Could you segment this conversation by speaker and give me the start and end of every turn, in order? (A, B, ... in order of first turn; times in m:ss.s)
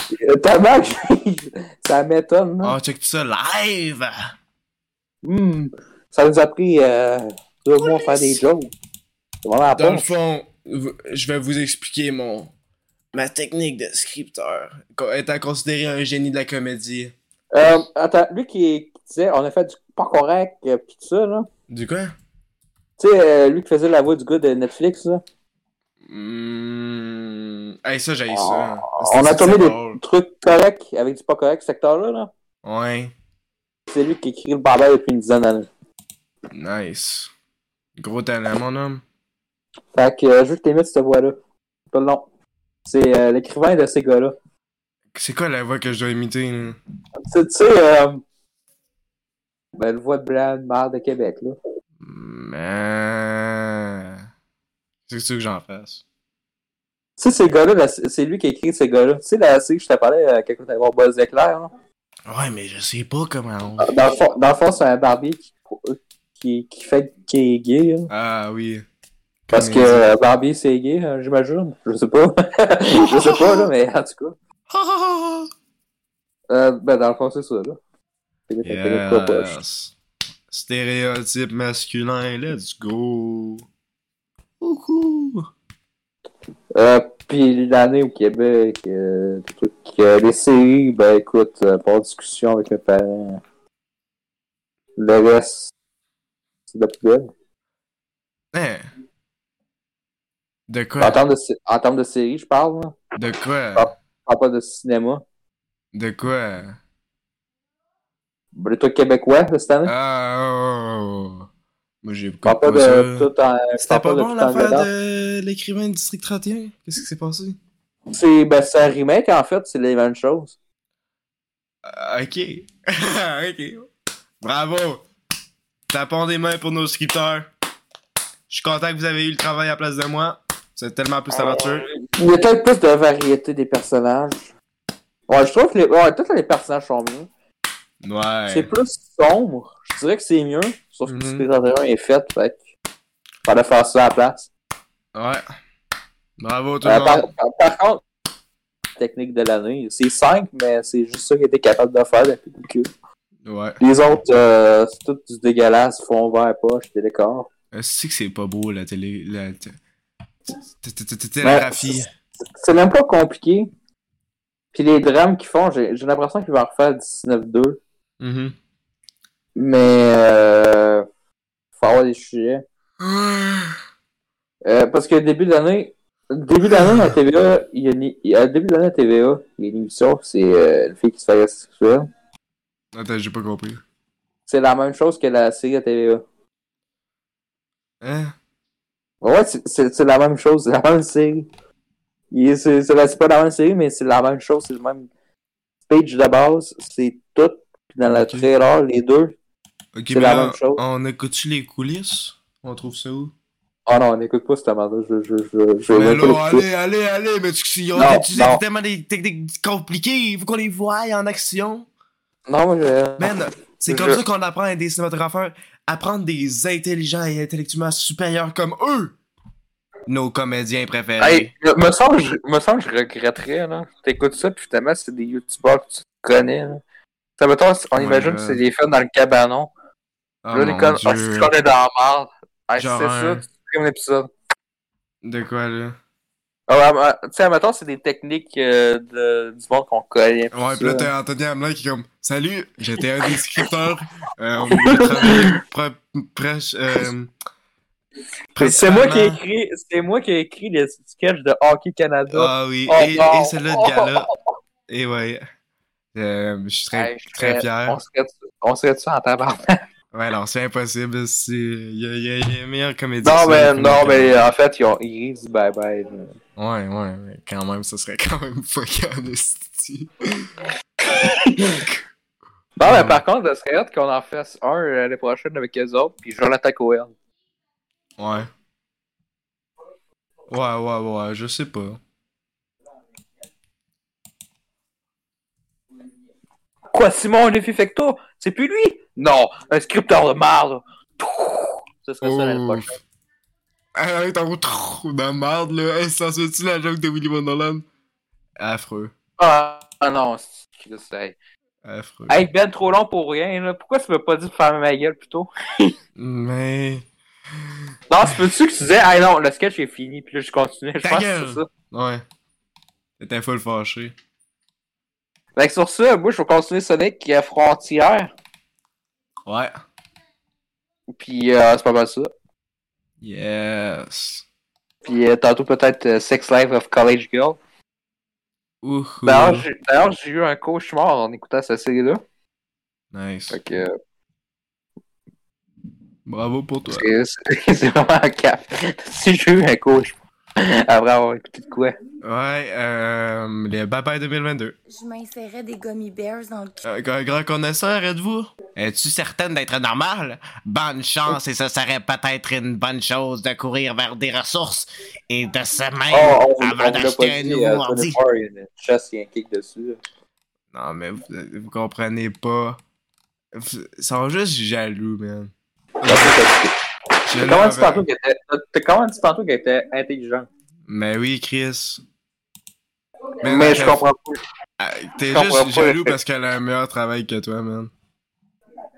0:00.1-0:02.8 A
0:02.6-0:04.3 B
0:05.2-0:08.7 A
0:09.4-0:10.1 A
0:09.7-0:12.5 B
0:13.1-0:17.1 B
0:17.5-0:21.5 A
0:21.7-0:22.1 B
0:23.0-0:25.2 A
0:26.0-0:30.0 B
0:28.3-0:32.3 A
0:32.6-0:33.1 B
0:33.9-0:35.7 A
0:36.5-0:37.3 B
0:38.0-0:39.0 B
0:39.9-0:41.4 A
0:41.9-0:42.2 A
0:42.8-0:44.3 A
0:45.1-0:46.8 B
0:47.3-0:48.2 A
0:49.8-0:51.6 A
0:52.0-0:54.2 B
0:55.1-0:56.0 B
0:57.2-1:01.7 A
1:02.3-1:03.9 B
1:03.8-1:08.1 A
1:08.1-1:08.8 B
1:09.5-1:10.1 B
1:09.5-1:14.4 A
1:13.0-1:13.7 B
1:14.7-1:15.5 B
1:16.5-1:17.8 A
1:18.5-1:19.5 A
1:18.6-1:19.9 B
1:20.5-1:23.6 B
1:24.6-1:25.5 B
1:26.7-1:33.4 A
1:35.0-1:35.7 A
1:36.7-1:37.3 A
1:38.5-1:38.9 B
1:40.7-1:41.2 B
1:41.0-1:43.0 A
1:43.2-1:43.9 B
1:43.7-1:45.2 A
1:45.9-1:46.8 B
1:48.5-1:49.9 A
1:49.8-1:51.5 B
1:52.0-1:57.6 B
1:52.4-1:54.9 A
1:58.1-2:00.5 A
2:01.8-2:03.9 B
2:04.4-2:05.0 B
2:05.9-2:07.5 B
2:08.5-2:11.9 B
2:12.0-2:14.5 A
2:15.3-2:17.3 A
2:18.0-2:18.7 B
2:18.5-2:22.6 A
2:21.0-2:21.4 B
2:23.4-2:24.5 A
2:25.1-2:25.4 B
2:26.4-2:27.3 B
2:26.8-2:28.0 A
2:29.0-2:32.9 A
2:33.4-2:33.8 B
2:33.8-2:37.5 A
2:37.7-2:39.8 B
2:40.8-2:42.1 B
2:41.4-2:43.7 A
2:44.7-2:47.8 A
2:48.2-2:48.6 B
2:49.6-2:51.0 A
2:51.8-2:52.6 A
2:53.0-2:53.8 B
2:54.6-3:02.1 A
2:56.7-2:57.1 B
3:02.9-3:03.8 B
3:04.5-3:06.2 A
3:08.0-3:08.3 B
3:09.2-3:11.5 A
3:12.3-3:15.1 A
3:15.9-3:19.3 A
3:18.1-3:18.5 B
3:19.9-3:23.3 B
3:20.1-3:20.8 A
3:23.9-3:26.6 A
3:25.9-3:31.9 B
3:27.9-3:28.6 A
3:32.5-3:33.3 A
3:33.2-3:39.2 B
3:33.9-3:34.2 A
3:40.1-3:41.5 B
3:41.2-3:46.8 A
3:47.4-3:49.7 A
3:48.0-3:48.6 B
3:50.4-3:51.5 B
3:50.5-3:54.3 A
3:52.8-3:53.4 B
3:55.2-3:56.0 B
3:56.7-4:01.1 A
4:00.5-4:07.3 B
4:04.7-4:05.6 A
4:08.6-4:09.4 B
4:08.6-4:14.3 A
4:12.3-4:14.3 B
4:14.9-4:15.4 B
4:16.1-4:18.0 B
4:16.9-4:19.8 A
4:20.1-4:24.4 B
4:23.2-4:26.3 A
4:26.6-4:30.5 B
4:31.1-4:31.8 A
4:32.8-4:37.1 A
4:32.8-4:33.2 B
4:38.2-4:38.5 B
4:40.5-4:42.0 B
4:46.9-4:53.0 A
4:52.2-4:52.9 B
4:53.9-4:57.8 B
4:58.6-4:59.1 B
4:59.4-5:01.4 A
5:01.8-5:02.4 B
5:02.3-5:05.9 A
5:06.2-5:07.1 B
5:07.6-5:08.4 B
5:08.1-5:11.6 A
5:11.0-5:12.2 B
5:13.2-5:14.1 B
5:15.6-5:18.3 A
5:19.4-5:19.8 B
5:21.1-5:22.3 A
5:23.2-5:24.4 B
5:25.0-5:27.6 A
5:28.8-5:29.7 B
5:29.2-5:32.2 A
5:33.1-5:33.6 B
5:33.5-5:34.0 A
5:36.2-5:37.1 B
5:36.9-5:42.0 A
5:42.2-5:44.8 B
5:44.9-5:46.8 C
5:46.8-5:58.2 B
5:56.1-6:00.0 A
6:00.7-6:02.8 B
6:03.5-6:06.4 B
6:06.0-6:06.7 A
6:07.3-6:08.0 B
6:07.4-6:10.5 A
6:10.9-6:12.0 B
6:13.4-6:14.4 A
6:13.4-6:14.0 B
6:14.8-6:17.9 B
6:15.2-6:16.2 A